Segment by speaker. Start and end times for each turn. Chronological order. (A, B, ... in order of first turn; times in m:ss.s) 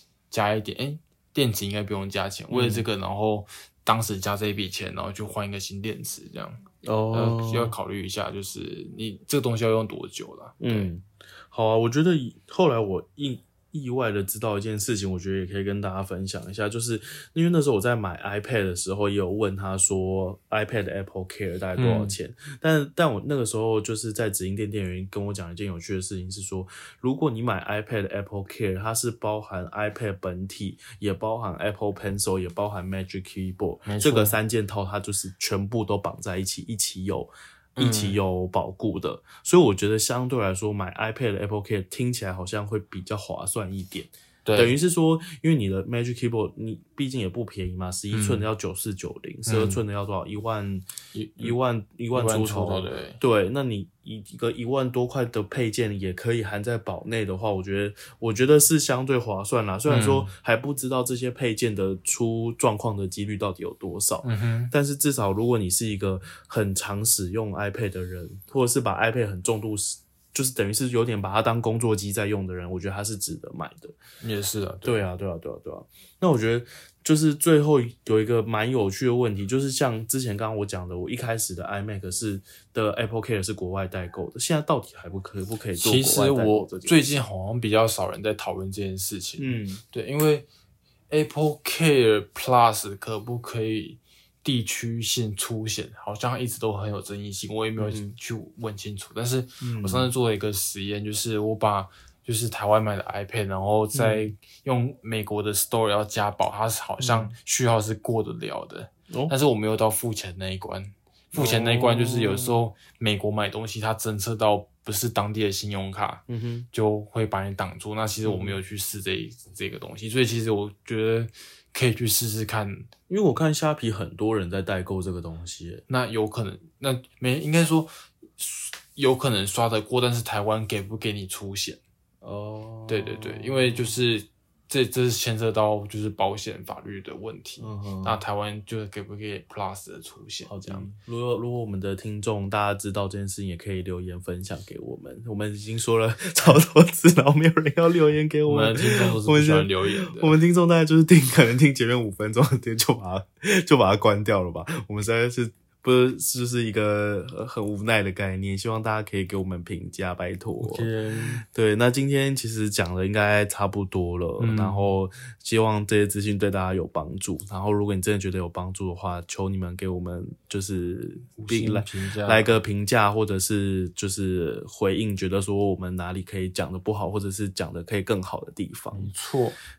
0:00.3-0:10.9 A
0:02.5-0:02.9 B
0:06.8-0:07.8 B
0:10.6-0:50.9 B
0:21.8-0:22.2 A
0:33.8-0:34.4 A
0:37.8-0:38.2 A
0:44.4-0:44.8 A
0:48.1-0:48.5 A
0:49.5-0:49.8 A
0:51.1-0:51.6 A
0:51.4-1:14.0 B
0:52.1-0:53.2 A
0:59.9-1:00.3 A
1:04.2-1:04.7 A
1:14.2-1:15.0 A
1:14.8-1:27.2 B
1:25.8-1:30.5 A
1:29.4-1:29.8 B
1:31.1-2:02.9 A
1:37.8-1:38.1 B
1:39.6-1:40.1 B
1:43.9-1:44.3 B
1:47.0-1:47.4 B
1:49.1-1:49.4 B
1:51.3-1:52.6 B
1:56.3-1:56.7 B
1:58.2-1:58.6 B
2:03.1-2:05.8 B
2:05.9-2:11.8 A
2:12.2-2:13.9 B
2:12.9-2:20.9 A
2:17.6-2:18.2 B
2:20.5-2:40.9 B
2:28.5-2:30.4 A
2:40.6-2:41.4 A
2:41.5-2:59.1 B
2:44.4-2:44.9 A
2:51.4-2:52.6 A
2:58.9-2:59.6 A